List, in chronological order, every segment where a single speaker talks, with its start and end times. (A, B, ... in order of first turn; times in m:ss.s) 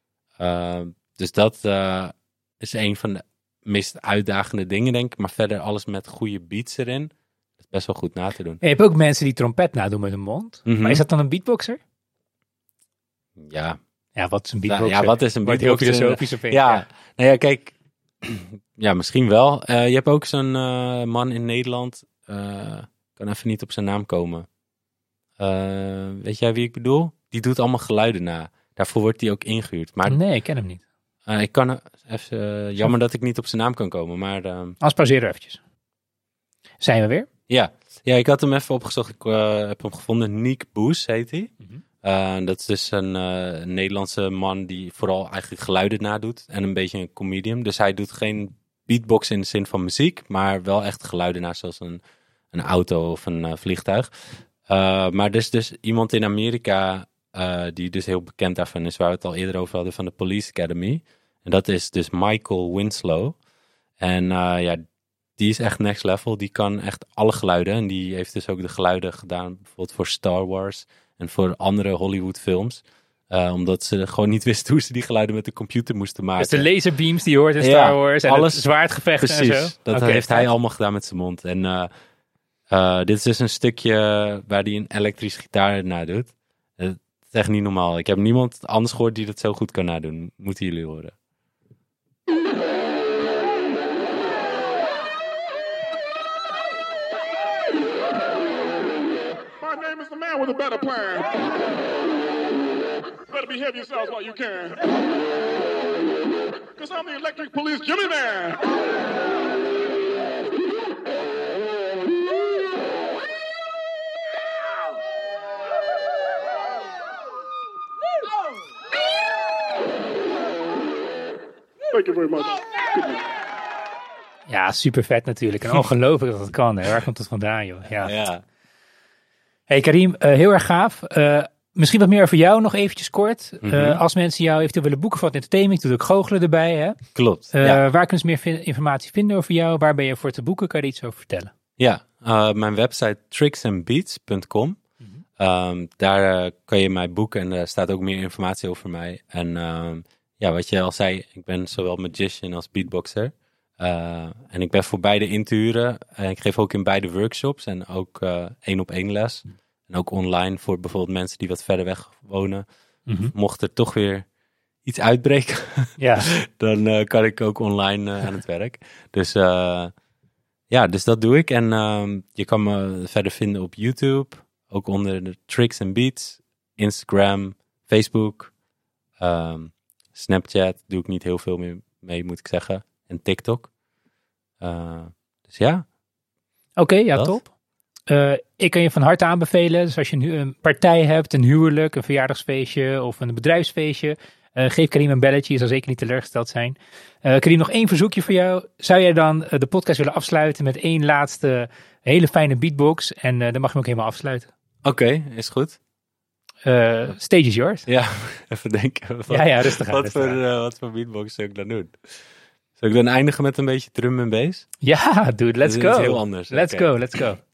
0:00.4-0:07.1 A
0:07.6-0:08.6 A
0:08.6-0:11.8 B
0:10.6-0:11.0 A
0:13.4-0:13.8 A
0:14.2-0:16.8 B
0:14.6-0:24.4 A
0:25.4-0:30.2 A
0:30.1-0:30.8 B
0:31.3-0:34.8 A
0:34.8-0:35.6 B
0:36.8-0:37.3 B
0:37.5-0:41.5 A
0:42.0-0:52.0 A
0:52.5-1:03.4 A
1:04.0-1:04.8 A
1:05.4-1:16.7 A
1:16.4-1:20.5 B
1:17.6-1:21.9 A
1:22.7-1:31.1 A
1:39.6-1:41.4 C
1:43.3-1:44.9 C
1:46.8-1:48.7 C
2:01.9-2:03.2 C
2:04.5-2:08.2 B
2:08.0-2:08.4 A
2:09.7-2:21.5 B
2:13.6-2:14.0 A
2:17.1-2:17.8 A
2:21.8-2:24.8 A
2:25.4-2:42.6 A
2:43.1-2:43.3 B
2:43.3-2:44.2 A
2:44.8-2:49.9 A
2:46.0-2:46.3 B
2:50.7-2:58.5 A
2:59.2-3:03.7 A
3:04.6-3:05.8 A
3:06.8-3:07.5 B
3:08.1-3:24.5 B
3:24.8-3:25.8 A
3:26.6-3:27.9 B
3:27.9-3:32.0 A
3:29.3-3:30.4 B
3:32.8-3:34.7 A
3:34.8-3:37.4 B
3:35.6-3:37.0 A